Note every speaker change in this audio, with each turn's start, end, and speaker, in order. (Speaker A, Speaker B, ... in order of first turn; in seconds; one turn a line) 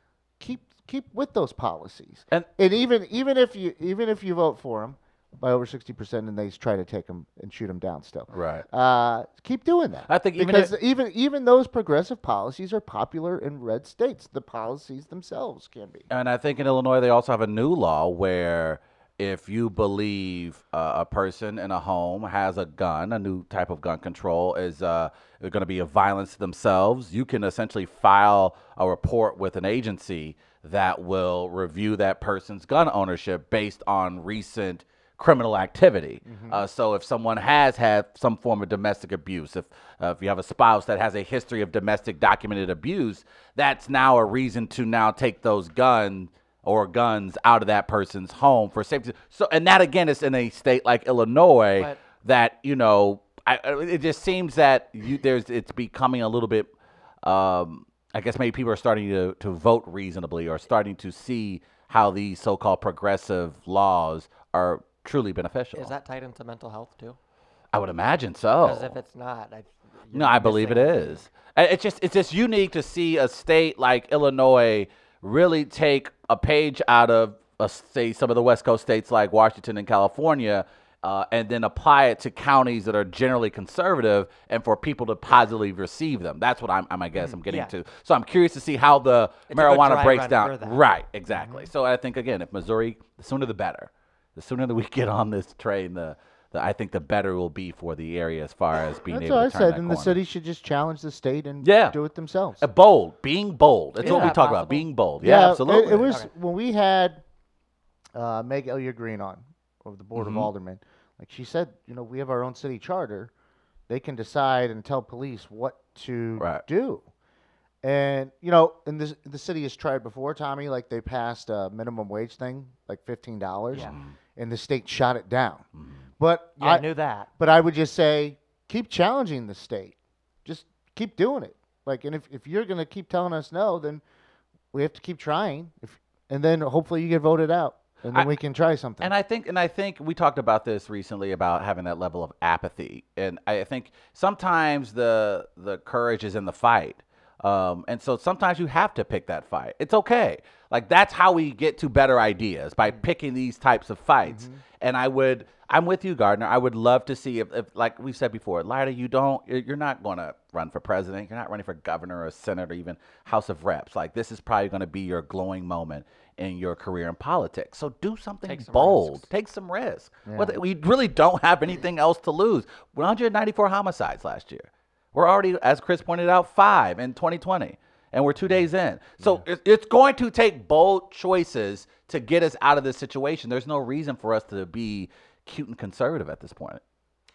Speaker A: 0.4-16.1
Speaker B: 8.3-8.7
Speaker B: 10.1-10.7
Speaker B: 16.1-56.7
Speaker A: 36.2-36.6
Speaker C: 51.8-52.0
Speaker B: 57.2-65.9
Speaker C: 65.7-67.2
Speaker B: 67.7-68.9
Speaker C: 68.6-71.2
Speaker B: 70.1-100.2
Speaker C: 87.2-87.7
Speaker C: 89.5-90.8
Speaker A: 91.3-91.6
Speaker A: 99.0-102.7
Speaker B: 101.6-102.0
Speaker B: 102.6-106.1
Speaker C: 104.0-104.9
Speaker A: 104.0-104.3
Speaker A: 105.2-107.2
Speaker A: 108.1-113.3
Speaker B: 110.2-110.5
Speaker A: 113.9-117.0
Speaker B: 116.4-116.6
Speaker A: 117.8-125.7
Speaker B: 123.7-124.2
Speaker B: 125.7-126.0
Speaker A: 126.2-134.0
Speaker C: 126.6-127.3
Speaker A: 134.7-139.1
Speaker B: 139.0-186.8
Speaker A: 154.2-154.6
Speaker C: 168.4-169.3
Speaker A: 170.3-170.6